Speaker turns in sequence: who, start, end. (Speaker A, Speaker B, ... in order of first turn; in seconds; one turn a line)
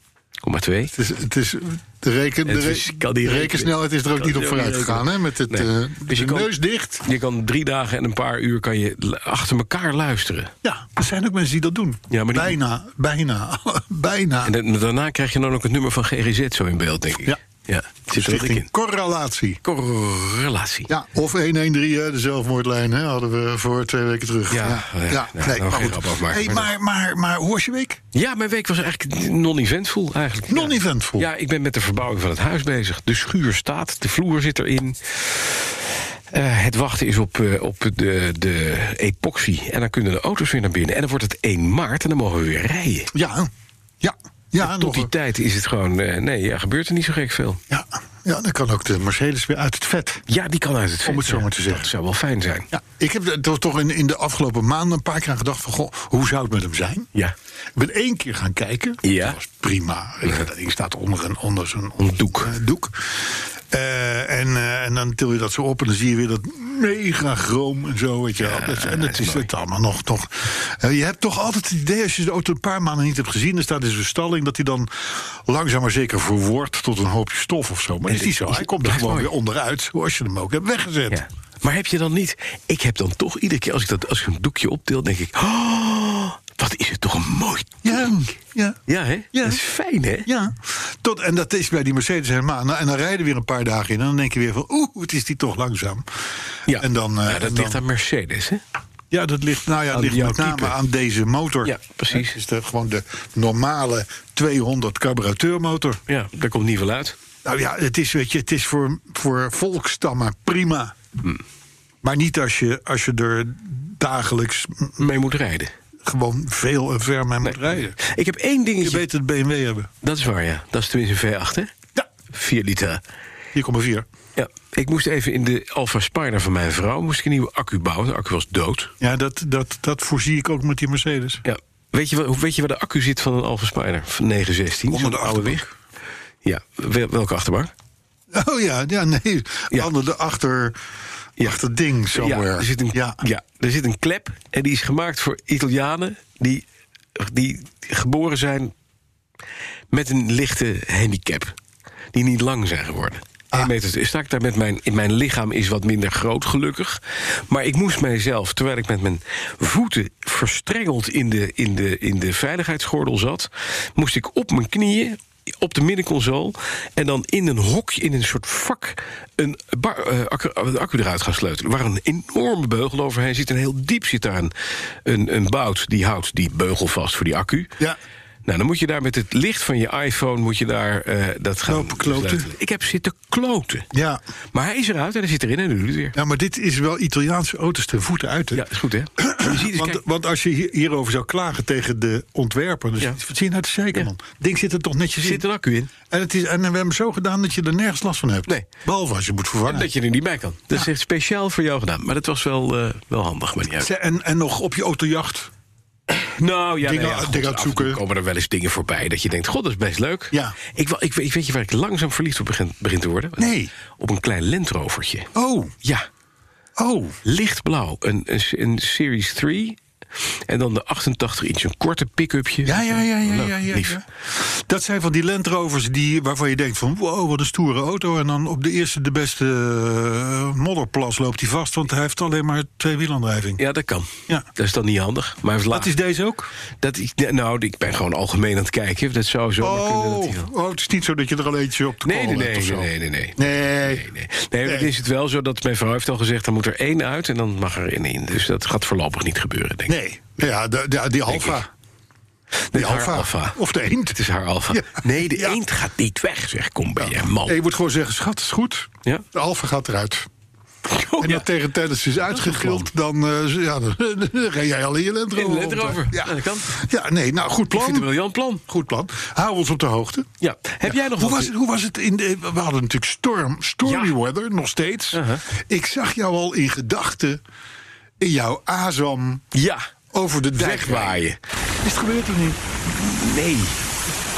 Speaker A: 0.4-0.9
Speaker B: 0.9-7.0
Speaker A: 2.4-10.5
Speaker B: 10.6-14.6
Speaker A: 12.1-12.6
Speaker A: 14.4-18.7
Speaker B: 18.1-19.6
Speaker A: 19.6-20.9
Speaker B: 20.9-28.0
Speaker A: 24.5-26.7
Speaker A: 28.1-43.1
Speaker B: 30.5-31.3
Speaker B: 43.1-45.1
Speaker A: 44.6-47.6
Speaker B: 47.7-50.2
Speaker A: 50.3-52.7
Speaker B: 51.0-51.9
Speaker B: 52.7-57.1
Speaker B: 57.8-81.2
Speaker A: 59.0-59.4
Speaker A: 62.0-62.5
Speaker A: 68.4-69.5
Speaker A: 78.1-79.3
Speaker A: 81.1-88.1
Speaker B: 87.8-88.8
Speaker A: 88.9-90.3
Speaker B: 89.3-89.6
Speaker B: 90.2-96.0
Speaker B: 96.7-97.8
Speaker A: 96.7-98.6
Speaker B: 99.1-106.0
Speaker A: 99.9-100.8
Speaker A: 101.6-102.3
Speaker A: 106.1-107.2
Speaker B: 107.4-110.9
Speaker B: 112.0-115.0
Speaker A: 115.0-115.7
Speaker B: 116.0-118.0
Speaker A: 117.4-119.0
Speaker B: 118.8-119.9
Speaker A: 120.0-121.7
Speaker A: 122.3-123.0
Speaker B: 123.5-124.1
Speaker A: 124.3-128.9
Speaker B: 129.0-131.4
Speaker A: 131.4-135.7
Speaker B: 134.9-135.7
Speaker A: 136.4-137.7
Speaker B: 138.3-140.8
Speaker B: 141.4-143.2
Speaker A: 142.1-148.7
Speaker A: 149.9-151.5
Speaker A: 152.1-177.7
Speaker A: 178.4-183.9
Speaker B: 181.7-182.5
Speaker B: 183.9-184.2
Speaker A: 184.5-186.2
Speaker B: 186.1-195.4
Speaker A: 188.5-190.0
Speaker A: 195.2-195.9
Speaker B: 196.1-199.9
Speaker A: 199.7-203.9
Speaker B: 203.8-205.5
Speaker A: 206.1-215.3
Speaker B: 206.8-208.0
Speaker B: 210.3-210.6
Speaker B: 213.4-213.7
Speaker B: 215.3-215.7
Speaker B: 216.8-217.2
Speaker A: 217.2-219.8
Speaker A: 220.5-224.0
Speaker B: 222.6-233.6
Speaker A: 233.6-235.9
Speaker B: 235.7-236.5
Speaker A: 236.8-240.5
Speaker B: 239.6-244.1
Speaker A: 242.0-250.0
Speaker B: 244.6-244.9
Speaker B: 249.9-251.7
Speaker A: 251.3-251.6
Speaker A: 252.7-253.6
Speaker B: 252.7-255.6
Speaker A: 254.1-257.6
Speaker B: 257.0-260.3
Speaker A: 260.9-261.5
Speaker B: 261.2-268.1
Speaker A: 262.3-262.9
Speaker A: 265.3-266.7
Speaker A: 267.7-268.6
Speaker B: 268.7-270.3
Speaker A: 270.4-271.5
Speaker B: 270.8-277.4
Speaker A: 273.9-274.1
Speaker A: 275.1-275.4
Speaker B: 278.2-279.4
Speaker A: 279.5-279.9
Speaker B: 280.1-281.2
Speaker A: 280.5-281.4
Speaker B: 281.8-282.6
Speaker A: 283.0-283.8